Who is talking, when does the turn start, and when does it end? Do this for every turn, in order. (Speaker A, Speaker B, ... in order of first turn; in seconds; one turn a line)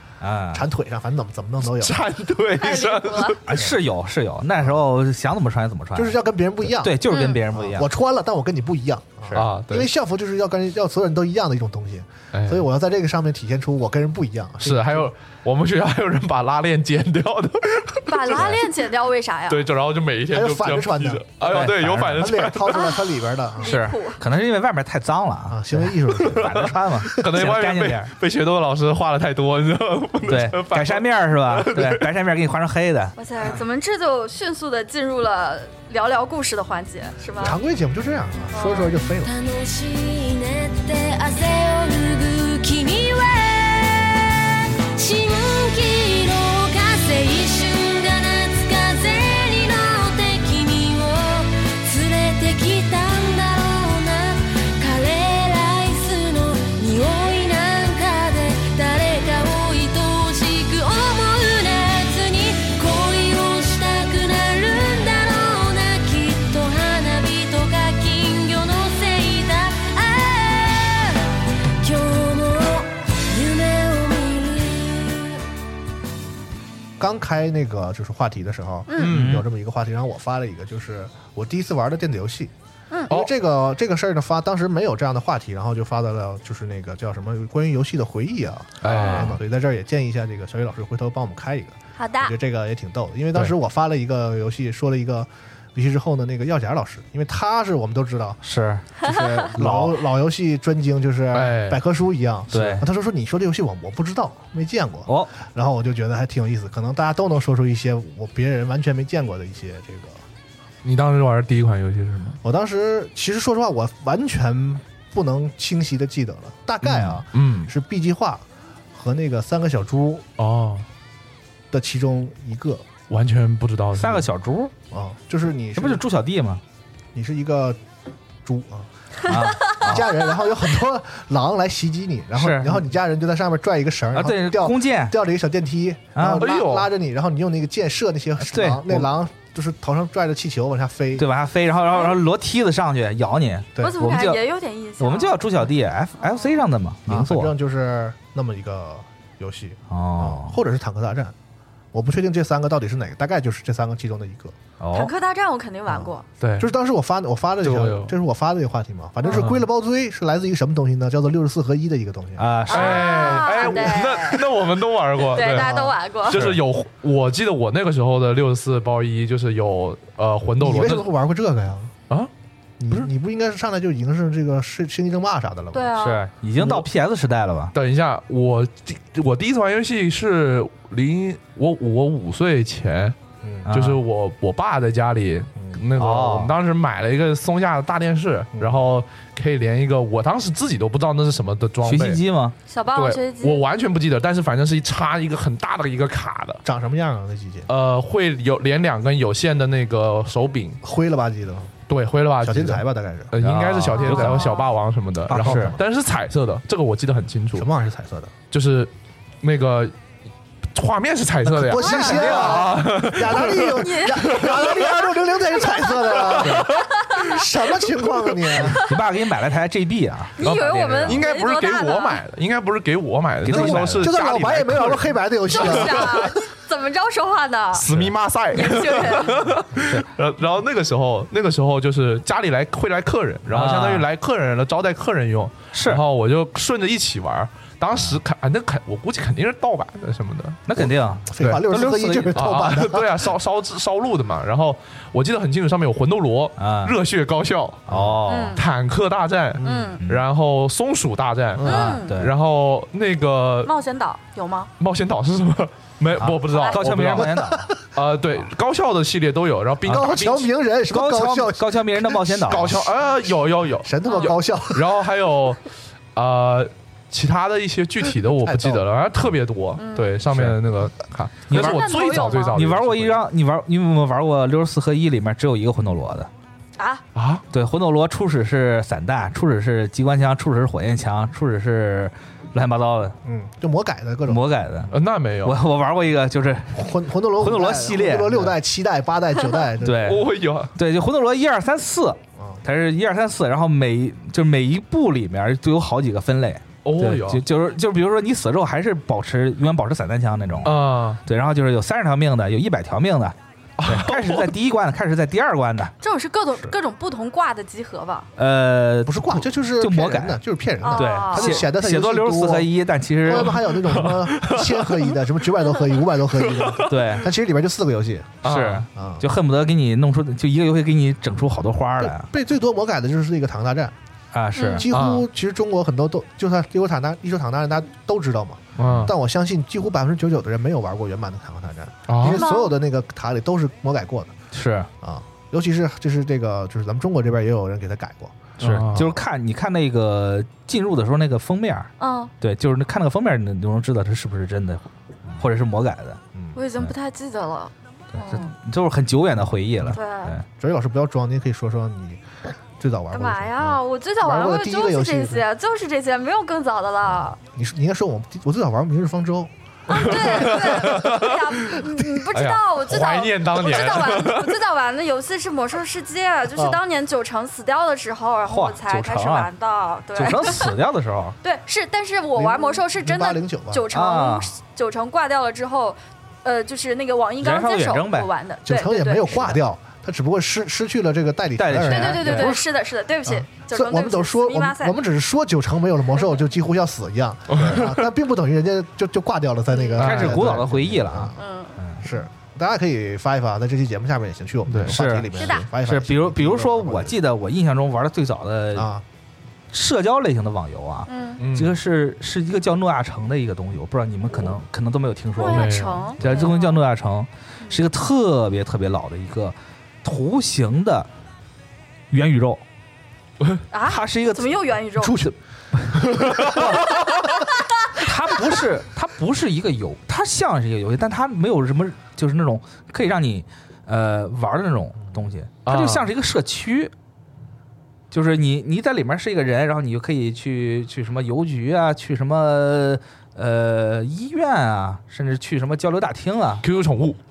Speaker A: 0.2-0.6
Speaker B: 0.5-2.1
Speaker C: 1.7-3.6
Speaker D: 2.6-3.4
Speaker A: 3.5-7.9
Speaker B: 6.0-15.1
Speaker D: 7.1-7.4
Speaker C: 9.3-9.9
Speaker C: 12.3-12.6
Speaker C: 14.6-18.6
Speaker D: 18.1-19.6
Speaker C: 19.5-22.9
Speaker B: 20.3-23.8
Speaker A: 21.4-22.4
Speaker D: 22.7-23.0
Speaker D: 23.6-24.2
Speaker A: 23.6-28.1
Speaker B: 25.5-27.2
Speaker C: 26.1-32.1
Speaker A: 30.3-33.1
Speaker D: 33.2-37.6
Speaker B: 37.4-39.3
Speaker D: 38.5-39.0
Speaker E: 39.2-75.4
Speaker B: 77.0-82.5
Speaker C: 79.0-79.4
Speaker A: 79.0-79.5
Speaker B: 83.1-98.4
Speaker C: 88.8-89.3
Speaker A: 88.9-89.2
Speaker D: 92.0-92.3
Speaker A: 98.4-98.9
Speaker D: 99.0-99.5
Speaker B: 99.0-110.2
Speaker A: 99.5-100.0
Speaker C: 101.3-101.8
Speaker A: 102.5-102.9
Speaker A: 105.1-105.3
Speaker C: 110.8-112.4
Speaker B: 112.4-120.2
Speaker C: 116.8-117.7
Speaker C: 120.4-120.9
Speaker B: 121.7-122.9
Speaker C: 123.1-124.3
Speaker A: 124.0-124.7
Speaker B: 124.9-126.0
Speaker A: 125.8-126.6
Speaker B: 127.1-127.8
Speaker B: 128.4-141.3
Speaker A: 129.3-130.2
Speaker A: 132.4-132.9
Speaker A: 134.1-135.2
Speaker A: 136.1-136.5
Speaker C: 136.3-136.9
Speaker A: 138.4-139.1
Speaker A: 141.2-144.4
Speaker D: 143.8-145.4
Speaker A: 145.0-147.5
Speaker D: 146.2-146.6
Speaker B: 147.1-151.3
Speaker A: 149.9-150.6
Speaker B: 151.9-154.6
Speaker A: 154.8-155.1
Speaker D: 154.9-156.3
Speaker B: 155.9-162.6
Speaker C: 156.4-156.7
Speaker C: 157.6-158.1
Speaker A: 162.4-163.4
Speaker D: 162.7-164.4
Speaker C: 162.7-165.7
Speaker B: 163.3-164.2
Speaker D: 165.3-166.5
Speaker B: 165.4-165.9
Speaker C: 166.3-171.1
Speaker B: 170.6-171.9
Speaker B: 172.8-175.9
Speaker D: 175.7-176.2
Speaker A: 176.0-177.7
Speaker B: 176.6-176.9
Speaker C: 177.7-183.2
Speaker B: 183.4-183.7
Speaker A: 183.6-184.0
Speaker C: 183.7-192.2
Speaker B: 185.6-185.8
Speaker A: 186.0-186.5
Speaker B: 188.6-188.8
Speaker A: 191.8-192.6
Speaker D: 192.7-193.6
Speaker C: 192.9-196.6
Speaker B: 196.6-197.7
Speaker C: 197.7-200.8
Speaker B: 200.8-201.7
Speaker C: 201.9-207.7
Speaker B: 202.4-203.5
Speaker A: 203.4-204.6
Speaker D: 204.0-204.7
Speaker A: 205.3-205.8
Speaker B: 205.3-205.8
Speaker B: 207.5-208.3
Speaker C: 208.5-209.9
Speaker C: 210.7-214.8
Speaker B: 211.4-218.8
Speaker A: 211.7-212.7
Speaker D: 213.6-214.5
Speaker C: 216.2-216.8
Speaker A: 216.4-216.7
Speaker D: 217.0-217.5
Speaker A: 218.7-221.2
Speaker D: 220.4-222.2
Speaker C: 220.4-226.3
Speaker A: 223.4-224.1
Speaker B: 223.4-226.3
Speaker D: 225.5-227.8
Speaker C: 227.7-240.6
Speaker D: 228.5-229.4
Speaker A: 229.8-230.1
Speaker A: 233.5-234.1
Speaker A: 235.7-236.0
Speaker A: 237.9-238.2
Speaker A: 240.7-242.5
Speaker B: 240.8-243.3
Speaker C: 241.4-241.6
Speaker C: 242.3-247.9
Speaker A: 246.6-247.0
Speaker B: 247.9-248.2
Speaker A: 247.9-248.6
Speaker D: 248.3-248.6
Speaker C: 248.5-253.7
Speaker B: 249.6-249.9
Speaker D: 249.6-250.0
Speaker A: 250.0-250.2
Speaker B: 251.6-251.9
Speaker A: 251.6-252.3
Speaker D: 251.7-252.1
Speaker D: 253.6-254.7
Speaker C: 254.8-257.4
Speaker A: 256.2-257.7
Speaker D: 256.5-256.8
Speaker B: 257.1-257.8
Speaker C: 257.9-260.5
Speaker A: 259.9-260.2
Speaker B: 259.9-265.0
Speaker A: 260.9-262.8
Speaker C: 262.4-265.6
Speaker D: 264.1-264.3
Speaker C: 266.1-273.2
Speaker B: 268.2-268.9
Speaker D: 269.8-270.1
Speaker A: 270.3-270.6
Speaker A: 271.5-276.3
Speaker D: 271.5-272.6
Speaker D: 276.8-277.0
Speaker C: 277.1-277.4
Speaker A: 277.5-283.2
Speaker B: 283.2-285.0
Speaker A: 284.3-288.5
Speaker C: 284.9-285.6
Speaker B: 286.7-290.3
Speaker A: 289.8-305.9
Speaker C: 290.0-290.7
Speaker B: 292.4-292.6
Speaker C: 296.9-297.4
Speaker C: 300.6-301.2
Speaker C: 303.8-304.5
Speaker D: 306.0-308.3
Speaker A: 308.4-313.6
Speaker B: 309.0-312.7
Speaker D: 310.9-311.6
Speaker B: 313.2-318.4
Speaker C: 313.3-315.1
Speaker C: 316.4-316.9
Speaker A: 316.9-317.3
Speaker C: 318.4-318.9
Speaker A: 318.4-322.3
Speaker B: 318.9-319.2
Speaker B: 322.0-323.9
Speaker A: 324.3-324.9
Speaker D: 324.6-324.9
Speaker B: 324.7-334.4
Speaker C: 324.9-325.3
Speaker C: 328.8-329.1
Speaker C: 332.1-332.4
Speaker D: 332.3-332.7
Speaker A: 334.5-334.9
Speaker B: 335.0-339.2
Speaker C: 338.6-339.1
Speaker A: 338.6-344.9
Speaker D: 342.0-342.3
Speaker A: 345.4-346.2
Speaker D: 346.5-348.5
Speaker A: 348.1-350.4
Speaker D: 349.9-350.3
Speaker B: 350.6-352.2
Speaker B: 352.8-355.4
Speaker D: 353.1-357.4
Speaker B: 357.4-361.1
Speaker D: 359.9-370.7
Speaker C: 359.9-364.6
Speaker A: 368.5-369.5
Speaker A: 370.1-371.4
Speaker D: 371.4-379.6
Speaker B: 372.4-373.9
Speaker A: 373.9-374.5
Speaker A: 377.4-378.3
Speaker B: 378.6-382.7
Speaker A: 381.6-382.6
Speaker D: 381.9-385.0
Speaker B: 383.2-391.4
Speaker C: 387.5-388.0
Speaker D: 389.7-390.0
Speaker C: 390.0-390.6
Speaker A: 390.0-392.1
Speaker D: 391.4-391.8
Speaker B: 392.0-397.2
Speaker C: 394.7-395.0
Speaker A: 394.9-398.9
Speaker D: 395.4-395.7
Speaker B: 398.7-399.0
Speaker A: 399.7-411.1
Speaker D: 401.1-401.4
Speaker C: 401.4-401.8
Speaker D: 405.4-406.8
Speaker C: 405.4-406.2
Speaker A: 412.1-412.6
Speaker D: 413.7-415.2
Speaker A: 413.9-416.9
Speaker B: 415.9-416.7
Speaker C: 416.1-416.7
Speaker A: 417.9-426.9
Speaker C: 425.7-426.1
Speaker A: 428.1-436.6
Speaker C: 436.6-437.2